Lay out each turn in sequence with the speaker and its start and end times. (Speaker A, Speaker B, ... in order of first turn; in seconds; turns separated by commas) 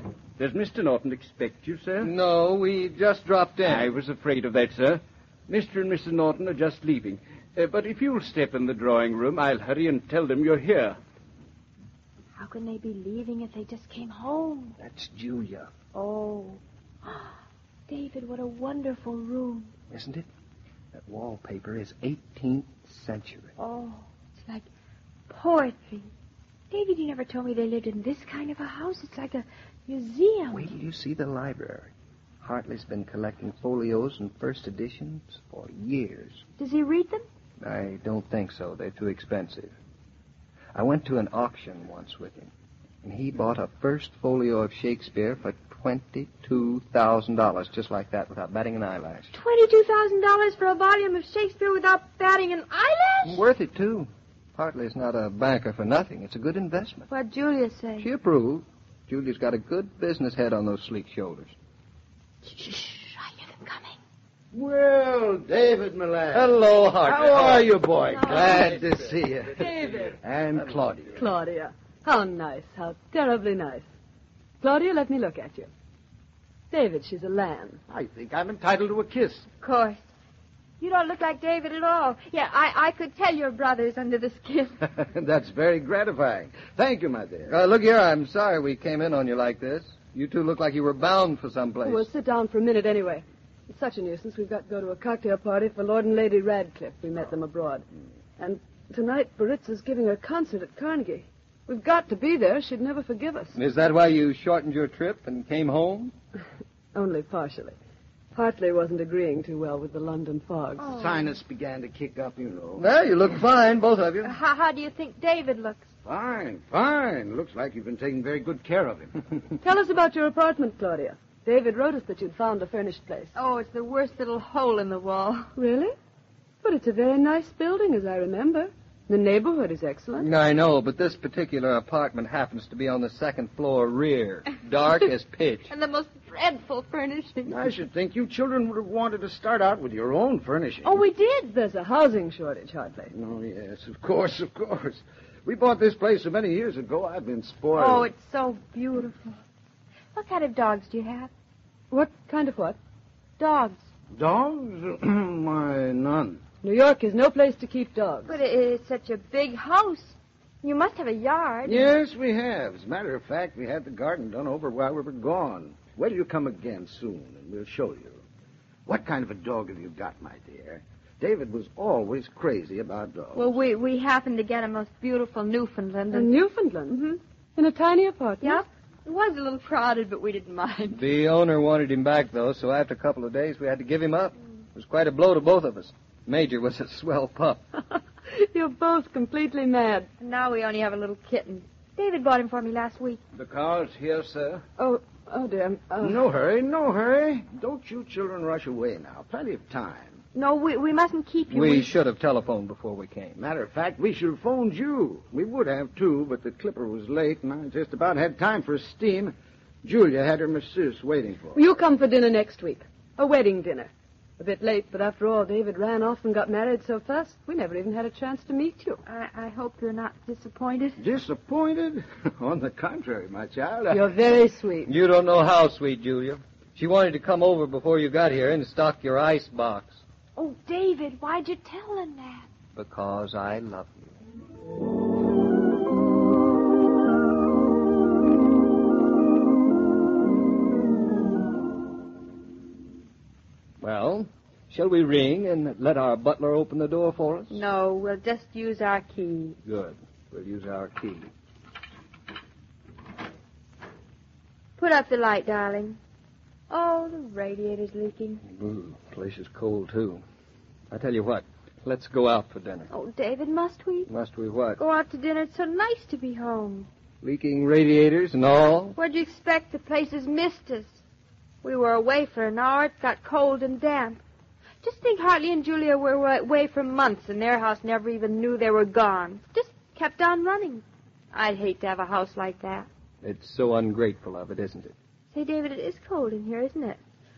Speaker A: 0.4-2.1, Speaker B: 2.0-3.9, Speaker A: 3.6-11.0, Speaker C: 12.4-14.7, Speaker B: 14.8-15.7, Speaker C: 15.9-17.4, Speaker C: 17.9-19.7, Speaker B: 19.9-20.3, Speaker B: 20.9-23.5, Speaker C: 23.6-24.7, Speaker C: 25.3-26.1, Speaker C: 26.7-30.7, Speaker B: 30.5-36.4, Speaker C: 36.6-37.2, Speaker B: 37.6-39.8, Speaker B: 40.8-42.5, Speaker B: 43.0-49.3, Speaker C: 49.3-53.4, Speaker B: 53.2-57.1, Speaker C: 57.1-58.1, Speaker B: 58.0-61.5, Speaker C: 62.5-64.0, Speaker D: 64.5-71.2, Speaker B: 66.3-67.7, Speaker C: 67.3-68.8, Speaker E: 69.6-70.1, Speaker B: 70.5-71.0, Speaker E: 71.2-73.9, Speaker E: 74.6-75.7, Speaker E: 76.7-77.8, Speaker D: 77.9-79.5, Speaker C: 79.6-80.1, Speaker C: 80.8-84.8, Speaker D: 84.9-87.6, Speaker B: 87.5-92.1, Speaker E: 91.8-97.8, Speaker E: 98.4-103.6, Speaker B: 103.6-106.1, Speaker E: 107.0-107.8, Speaker E: 108.3-110.9, Speaker C: 110.8-111.4, Speaker D: 110.9-112.9, Speaker B: 112.8-114.3, Speaker C: 114.2-115.9, Speaker D: 116.0-119.4, Speaker E: 119.6-123.3, Speaker C: 123.3-125.5, Speaker E: 125.6-125.9, Speaker E: 126.6-130.3, Speaker B: 130.2-135.7, Speaker C: 135.7-137.6, Speaker D: 137.5-141.0, Speaker C: 140.8-141.5, Speaker E: 141.5-143.1, Speaker D: 143.1-148.1, Speaker C: 147.7-149.4, Speaker C: 150.1-151.3, Speaker E: 151.9-152.8, Speaker C: 153.4-153.8, Speaker D: 154.2-156.4, Speaker E: 156.6-158.4, Speaker C: 158.3-161.9, Speaker D: 161.7-168.2, Speaker D: 168.9-173.6, Speaker C: 173.3-176.3, Speaker E: 176.1-178.7, Speaker C: 178.4-181.0, Speaker B: 180.9-187.6, Speaker E: 188.3-190.1, Speaker C: 190.2-193.2, Speaker D: 193.4-194.6, Speaker E: 194.8-196.2, Speaker D: 196.0-200.2, Speaker C: 200.3-201.9, Speaker B: 201.5-203.4, Speaker D: 203.4-211.6, Speaker E: 211.5-219.0, Speaker C: 219.1-221.0, Speaker D: 221.0-224.1, Speaker E: 223.9-224.9, Speaker B: 224.8-230.0, Speaker C: 230.4-232.5, Speaker B: 232.8-234.1, Speaker B: 243.8-247.6, Speaker C: 247.5-249.6, Speaker B: 249.6-251.3, Speaker C: 254.8-256.0, Speaker C: 256.7-258.4, Speaker B: 258.5-260.2, Speaker B: 260.9-262.9, Speaker C: 262.9-264.1, Speaker B: 264.1-264.8, Speaker C: 264.8-266.9, Speaker B: 267.2-269.0, Speaker C: 269.0-271.0, Speaker C: 271.6-274.2, Speaker C: 274.8-282.9, Speaker B: 283.2-284.9, Speaker C: 285.3-287.0